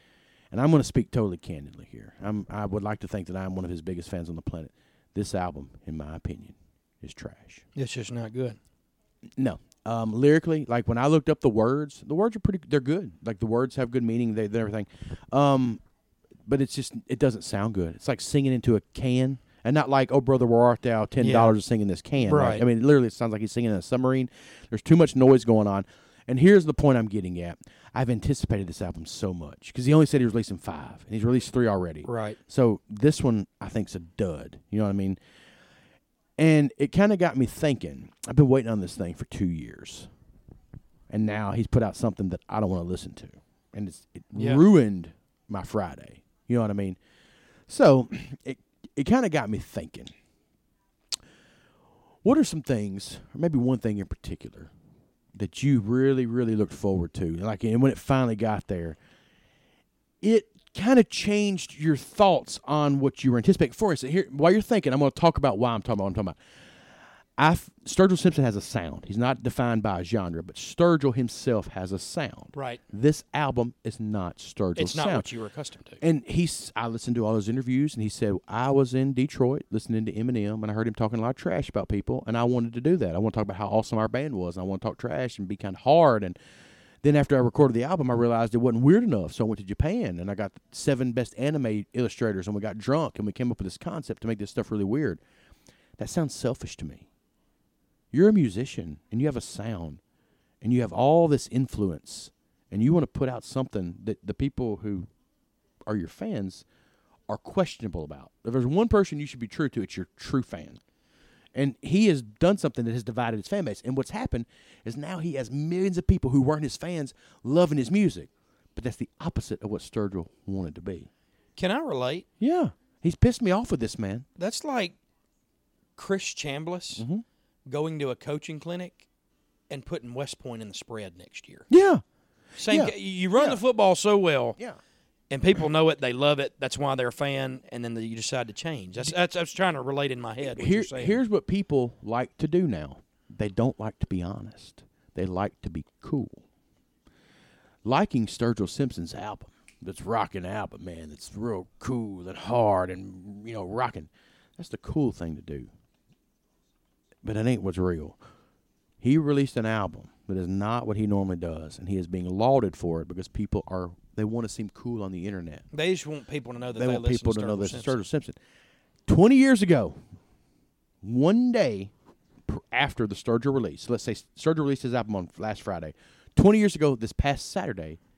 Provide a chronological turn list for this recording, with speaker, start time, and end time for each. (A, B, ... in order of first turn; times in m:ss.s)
0:00.5-0:07.6 A
0:07.7-0:08.6 B
0:09.4-0:15.8 A
0:16.4-0:35.2 A
0:21.2-0:21.5 B
0:22.2-0:22.6 B
0:32.0-0:32.4 B
0:36.4-0:40.1 A
0:41.1-0:47.0 A
0:44.3-0:44.6 B
0:47.7-0:50.1 A
0:52.2-0:54.7 A
0:55.3-0:59.0 A
1:00.2-1:06.4 A
1:07.4-1:15.3 A
1:12.5-1:12.8 B
1:14.8-1:16.0 B
1:16.0-1:26.4 A
1:27.0-1:35.2 A
1:36.0-1:37.0 A
1:38.1-1:40.0 A
1:40.6-1:45.1 A
1:45.8-1:46.6 A
1:47.3-1:50.8 A
1:51.5-2:01.1 A
2:01.6-2:02.2 B
2:02.4-2:04.2 A
2:04.4-2:05.0 B
2:06.0-2:07.0 B
2:07.0-2:07.2 A
2:07.7-2:09.1 B
2:09.7-2:11.7 B
2:11.7-2:12.0 A
2:12.6-2:14.6 B
2:12.7-2:13.6 A
2:15.3-2:21.2 B
2:20.4-2:26.4 A
2:27.8-2:35.7 A
2:37.2-2:38.2 A
2:39.0-2:45.6 A
2:45.7-2:48.0 B
2:46.7-2:48.4 A
2:49.1-2:50.0 A
2:51.0-2:51.9 A
2:52.5-2:58.0 A